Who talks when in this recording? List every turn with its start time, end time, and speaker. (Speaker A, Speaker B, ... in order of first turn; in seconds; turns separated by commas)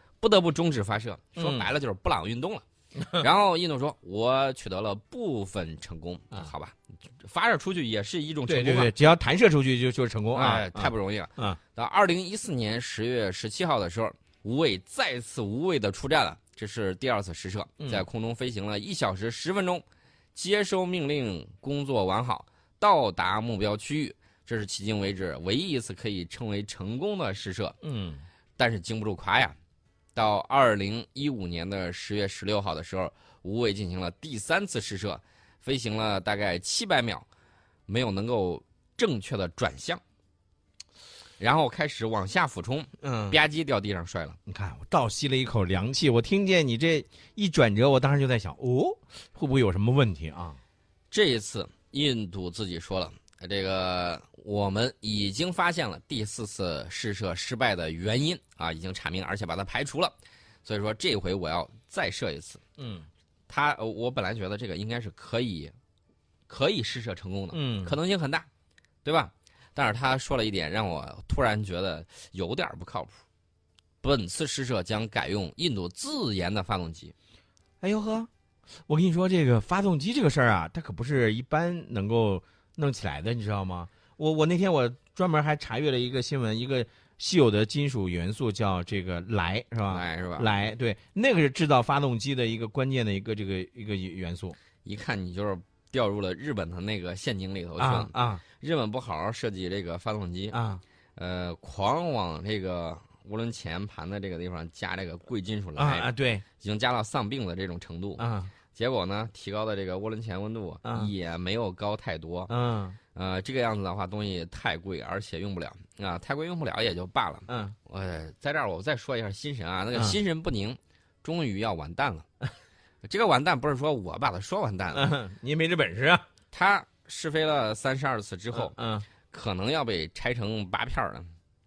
Speaker A: 0.2-8.9, Speaker B: 1.4-1.7, Speaker B: 3.0-3.2, Speaker B: 8.5-11.6, Speaker A: 10.3-27.8, Speaker B: 27.8-28.2, Speaker A: 28.6-29.6, Speaker A: 30.1-37.3, Speaker A: 37.9-40.0, Speaker A: 41.4-44.4, Speaker B: 43.0-43.4, Speaker B: 44.5-50.6, Speaker A: 51.1-62.6, Speaker B: 62.8-63.1, Speaker A: 63.5-65.7, Speaker A: 66.5-68.5, Speaker B: 67.5-68.0, Speaker A: 69.0-73.2, Speaker A: 74.0-77.1, Speaker B: 77.8-78.3, Speaker B: 78.9-94.6, Speaker A: 89.9-90.5, Speaker A: 94.8-100.6, Speaker B: 97.8-98.4, Speaker B: 100.5-100.8, Speaker A: 101.2-106.1, Speaker B: 105.8-106.4, Speaker A: 106.6-112.5, Speaker B: 108.2-108.5, Speaker B: 110.8-111.1, Speaker B: 112.5-113.0, Speaker A: 113.2-122.2, Speaker B: 117.5-117.8, Speaker B: 119.9-120.2, Speaker A: 123.0-125.1, Speaker B: 124.9-126.2, Speaker A: 126.5-128.8, Speaker B: 128.5-129.1, Speaker A: 129.3-131.3